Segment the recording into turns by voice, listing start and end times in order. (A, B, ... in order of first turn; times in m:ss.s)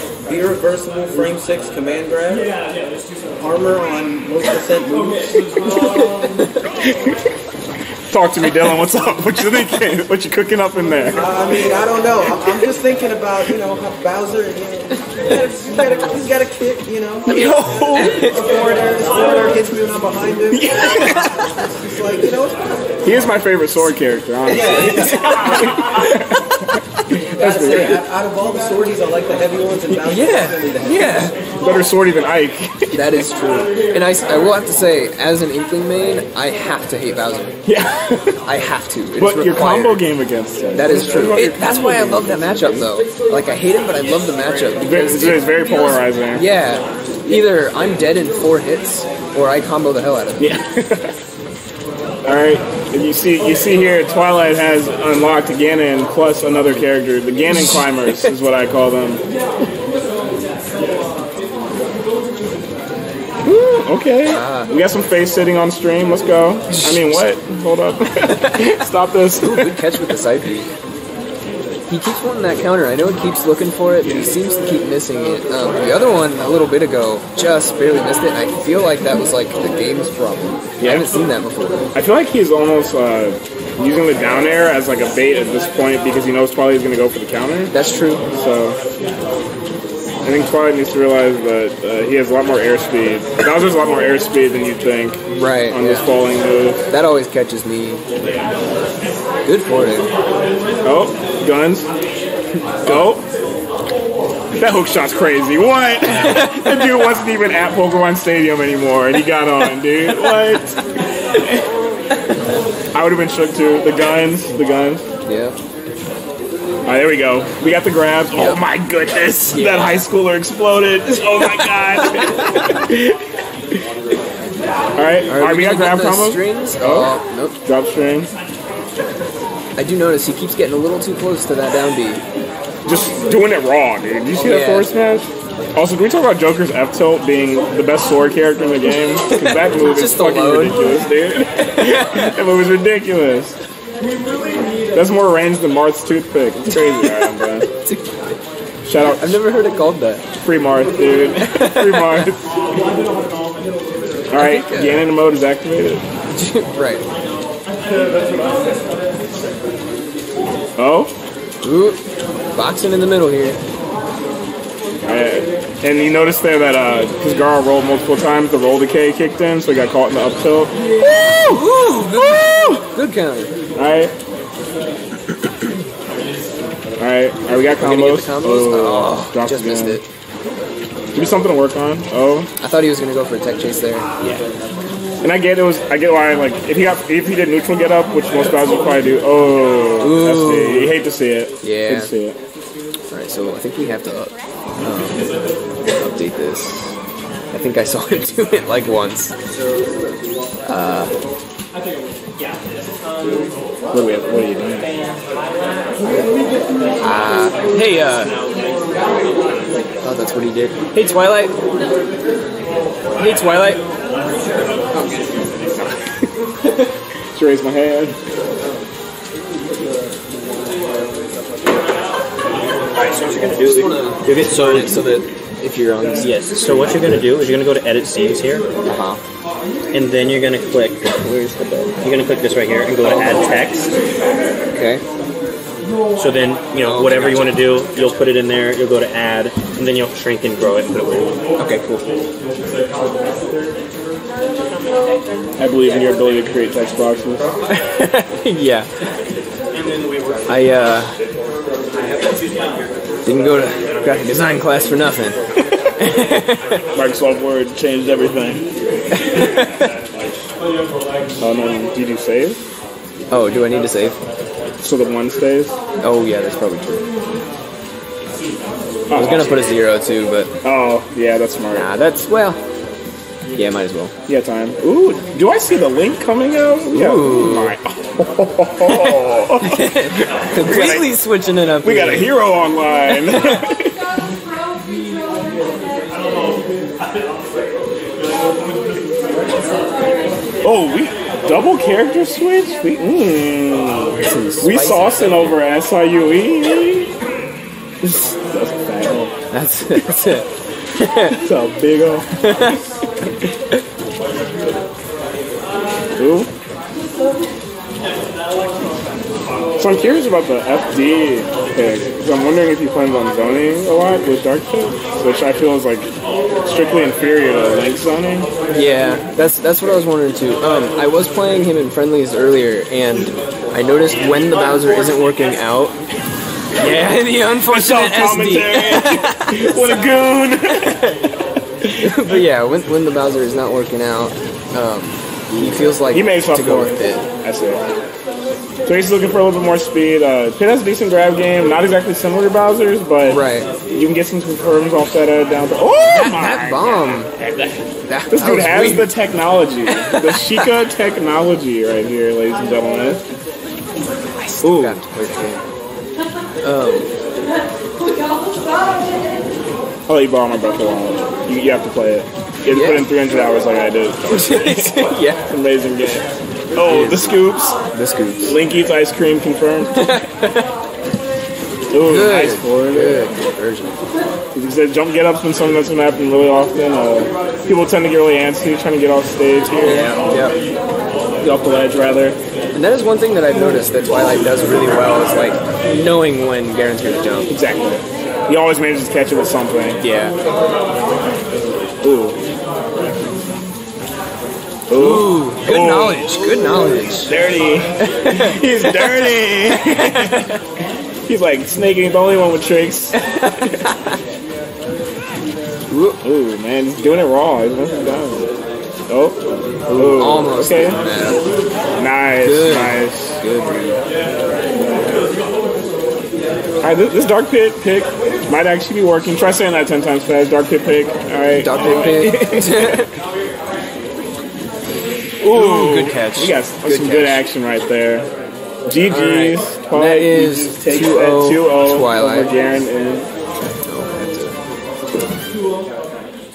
0:00.3-0:02.5 A
0:03.4-0:05.4 A
0:08.1-0:11.2 B
0:11.1-0:23.0 A
0:17.3-0:18.2 B
0:17.9-0:18.3 C
0:20.5-0:21.4 B
0:23.0-0:26.4 B
0:24.4-0:25.6 A
0:24.8-0:25.8 C
0:27.1-0:28.0 B
0:27.2-0:31.3 A
0:29.9-0:31.4 C
0:31.6-0:33.0 B
0:32.9-0:37.6 C
0:37.7-0:38.4 B
0:38.5-0:40.0 C
0:39.2-0:42.9 B
0:40.7-0:50.5 C
0:44.8-0:46.4 B
0:50.4-0:51.1 B
0:52.2-0:59.2 B
0:57.5-0:58.3 C
1:03.7-1:10.0 B
1:04.3-1:04.7 C
1:06.8-1:07.2 C
1:08.3-1:08.6 C
1:09.4-1:10.7 C
1:11.9-1:21.9 C
1:20.8-1:21.1 B
1:21.9-1:27.7 B
1:27.7-1:28.2 C
1:28.3-1:28.8 B
1:30.2-1:36.8 B
1:35.3-1:36.1 C
1:36.9-1:38.0 C
1:39.4-1:40.1 C
1:40.8-1:41.9 B
1:42.8-1:43.2 B
1:44.6-1:50.8 B
1:46.2-1:46.9 C
1:50.1-1:50.4 C
1:52.9-1:55.0 B
1:55.3-1:55.6 C
1:56.9-2:03.2 B
1:58.4-1:58.6 C
1:59.5-2:00.0 C
2:02.0-2:02.8 C
2:05.0-2:07.1 B
2:05.3-2:07.6 C
2:07.6-2:08.3 B
2:09.8-2:12.2 C
2:12.9-2:23.6 B
2:14.4-2:14.9 C
2:19.2-2:21.0 C
2:21.6-2:22.3 C
2:24.9-2:27.7 B
2:26.7-2:28.2 C
2:28.8-2:29.4 B
2:29.0-2:30.2 C
2:30.4-2:32.4 B
2:31.4-2:32.3 C
2:34.3-2:36.0 B
2:34.4-2:35.1 C
2:36.3-2:37.0 C
2:40.8-2:41.1 B
2:41.6-2:42.0 C
2:42.5-2:43.6 C
2:45.0-2:52.8 B
2:51.3-2:53.5 C
2:53.8-2:54.1 B
2:57.0-3:00.0 B
2:57.8-3:00.0 C
3:01.1-3:02.5 B
3:02.6-3:04.1 C
3:05.2-3:12.4 B
3:10.0-3:11.0 C
3:11.6-3:12.1 C
3:13.1-3:15.3 C
3:15.9-3:16.9 C
3:17.5-3:19.4 C
3:20.7-3:21.1 C
3:23.9-3:24.9 B
3:27.0-3:28.3 C
3:30.0-3:31.5 C
3:33.2-3:33.8 C
3:34.9-3:36.1 C
3:37.3-3:38.2 B
3:43.0-3:44.9 D
3:43.2-3:46.4 C
3:46.2-3:48.6 D
3:48.9-3:49.2 C
3:49.9-3:51.1 D
3:51.1-3:51.9 C
3:52.0-3:54.0 D
3:53.0-3:53.4 C
3:54.7-3:55.0 C
3:56.2-4:01.4 D
3:56.8-3:57.5 C
4:01.6-4:02.0 C
4:05.6-4:07.5 B
4:07.7-4:08.9 C
4:10.5-4:11.2 C
4:13.2-4:15.4 C
4:16.0-4:16.8 C
4:16.9-4:18.6 B
4:19.1-4:19.9 C
4:21.4-4:22.6 B
4:23.3-4:24.2 C
4:24.8-4:25.8 B
4:26.0-4:27.0 C
4:29.1-4:29.7 B
4:29.1-4:30.5 C
4:30.6-4:31.9 B
4:31.7-4:32.6 C
4:33.5-4:34.1 C
4:34.3-4:41.1 B
4:36.9-4:37.8 C
4:38.9-4:42.4 C
4:41.8-4:44.0 B
4:43.1-4:43.7 C
4:50.6-4:57.1 B
4:54.2-4:55.6 C
4:58.0-4:59.3 B
4:59.5-5:01.4 C
5:01.3-5:02.8 B
5:02.4-5:02.8 C
5:06.2-5:06.5 B
5:09.8-5:16.1 B
5:16.6-5:18.5 B
5:18.7-5:26.0 C
5:26.8-5:30.0 C
5:27.7-5:31.1 B
5:32.0-5:37.3 C
5:35.6-5:37.8 B
5:38.9-5:53.2 B
5:43.3-5:43.7 C
5:46.1-5:47.3 C
5:48.1-5:49.1 C
5:49.9-5:50.7 C
5:54.4-5:55.6 C
5:54.6-5:55.0 B
5:56.6-5:57.1 C
6:00.1-6:07.8 B
6:02.7-6:03.1 C
6:04.3-6:05.4 C
6:06.8-6:08.6 C
6:08.5-6:10.2 B
6:10.0-6:10.7 C
6:11.9-6:13.3 B
6:12.0-6:14.0 C
6:14.5-6:20.2 B
6:19.8-6:20.6 C
6:21.4-6:22.4 B
6:22.7-6:27.5 C
6:27.5-6:30.0 B
6:30.0-6:30.4 C
6:32.0-6:32.4 B
6:34.9-6:40.4 B
6:34.9-6:37.3 C
6:38.0-6:40.6 C
6:41.3-6:43.2 B
6:43.1-6:44.2 C
6:45.9-6:46.2 C
6:46.2-6:48.5 B
6:49.1-6:49.4 B
6:49.9-6:51.5 C
6:49.9-6:51.0 B
6:52.0-6:53.4 B
6:52.4-6:54.0 C
6:56.8-7:02.8 B
7:01.6-7:03.1 C
7:05.4-7:08.3 B
7:05.5-7:07.4 C
7:08.9-7:13.3 B
7:09.1-7:12.5 C
7:13.6-7:14.6 C